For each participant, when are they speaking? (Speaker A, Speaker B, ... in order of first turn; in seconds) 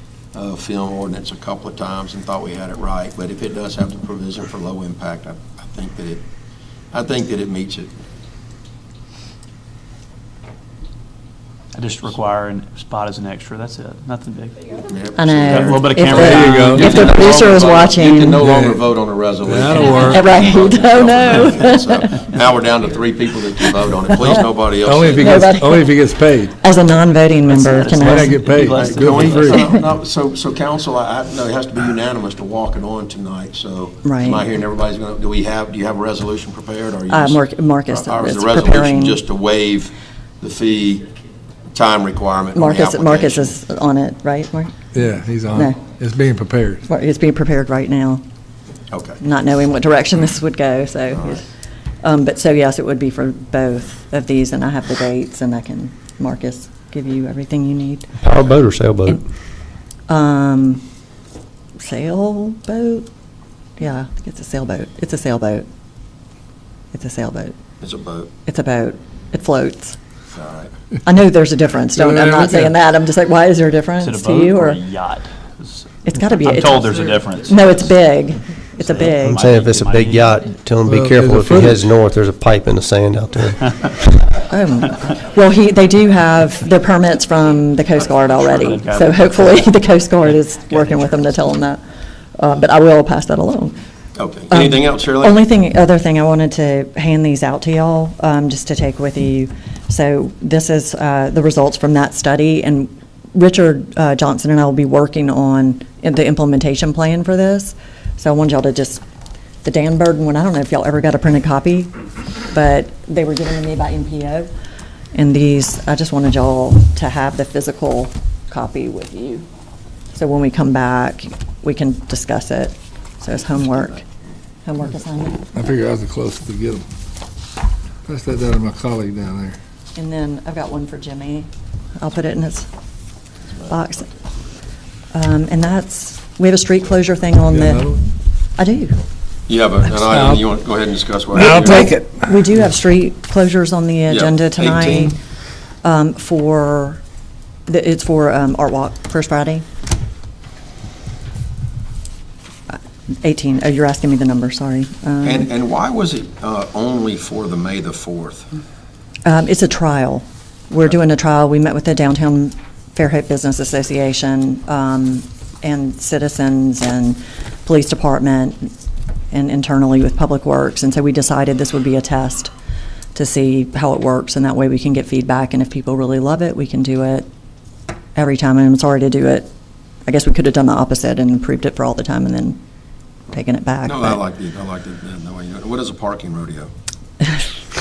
Speaker A: 0.3-6.2, 6.9-7.9, 14.7-25.5, 28.7-41.1, 41.7-43.6, 48.9-49.2, 51.1-51.4, 67.8-68.3, 70.3-70.7, 94.1-95.5, 139.5-141.9, 144.1-145.1, 155.2-158.5, 183.8-186.7
Speaker B: 11.7-14.6, 15.4-17.9, 27.5-29.6, 74.0-77.9, 78.8-80.4, 88.1-91.2
Speaker C: 15.1-18.4, 19.9-22.2, 23.6-24.4, 25.1-25.9, 26.6-28.4, 29.5-29.8, 34.0-34.4, 37.1-39.2, 42.5-44.7, 45.5-45.8, 46.9-48.2, 49.2-51.5, 52.0-58.2, 60.1-60.8, 61.8-63.1, 63.8-65.7, 66.9-67.5, 68.5-70.0, 71.0-74.8, 76.0-79.4, 84.5-91.8, 92.3-93.8, 94.5-109.0, 109.6-111.9, 112.5-114.5, 115.1-119.5, 120.1-124.0, 124.6-125.5, 129.9-131.5, 132.0-132.7, 133.7-134.1, 135.1-137.9, 138.6-139.0, 141.5-145.2, 145.8-147.0, 147.7-149.6, 152.7-155.5, 159.2-168.7, 169.3-172.5, 173.1-177.3, 178.2-179.5, 180.1-182.6, 183.3-184.2
Speaker D: 16.2-17.0, 18.4-20.3, 24.8-26.6, 27.9-29.6, 44.9-46.8, 71.9-72.7, 80.8-81.8, 125.5-126.8, 128.1-129.6, 137.4-138.0, 140.0-140.4, 141.3-142.3
Speaker E: 58.2-59.2, 79.3-83.8